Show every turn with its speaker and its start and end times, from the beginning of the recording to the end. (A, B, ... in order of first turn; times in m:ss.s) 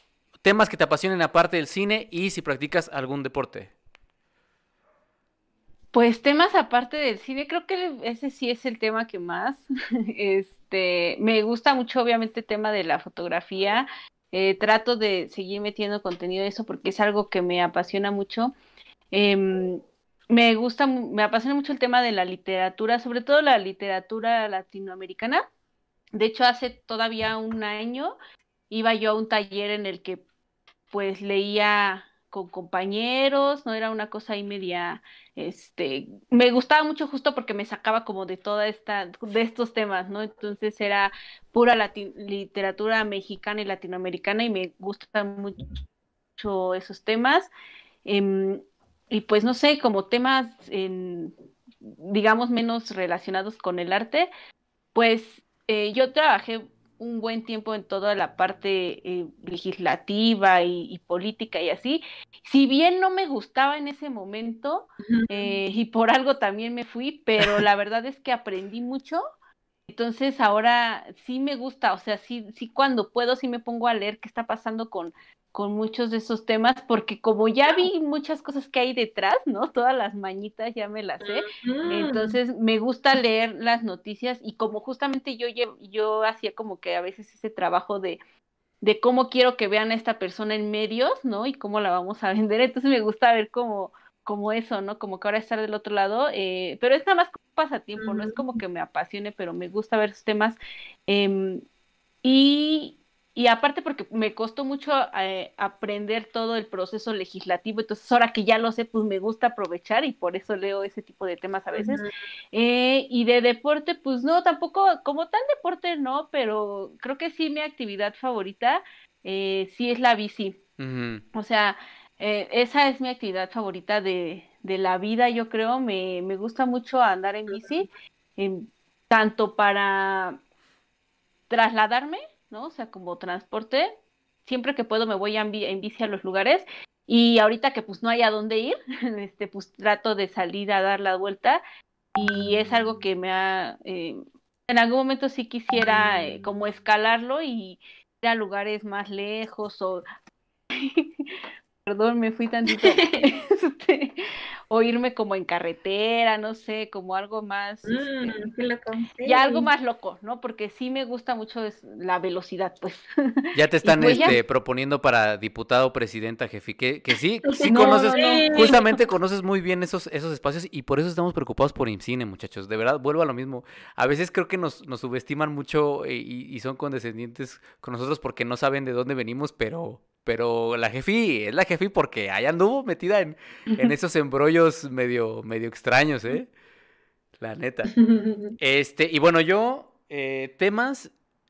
0:00.4-0:03.7 A
0:05.9-0:18.5 B
0:19.1-0:25.4 B
0:26.1-0:28.2 B
0:28.7-0:30.2 B
0:30.9-0:45.6 B
0:46.4-0:47.5 B
0:48.0-0:54.3 B
0:55.0-1:09.2 B
1:05.1-1:05.5 C
1:09.9-1:28.2 B
1:21.2-1:22.4 C
1:28.8-1:41.6 B
1:38.0-1:38.4 C
1:42.2-2:00.6 B
1:51.7-1:52.1 C
2:00.8-2:01.2 A
2:01.3-2:10.4 B
2:11.5-2:13.9 B
2:14.4-2:21.6 B
2:22.2-2:30.0 B
2:30.7-2:38.4 B
2:32.7-2:33.3 C
2:37.9-2:39.7 C
2:39.2-2:44.4 B
2:43.6-3:06.5 A
2:44.0-2:44.4 C
2:47.5-2:48.8 C
2:47.6-2:48.8 B
3:07.4-3:07.9 A
3:07.9-3:08.6 C
3:08.6-3:11.1 A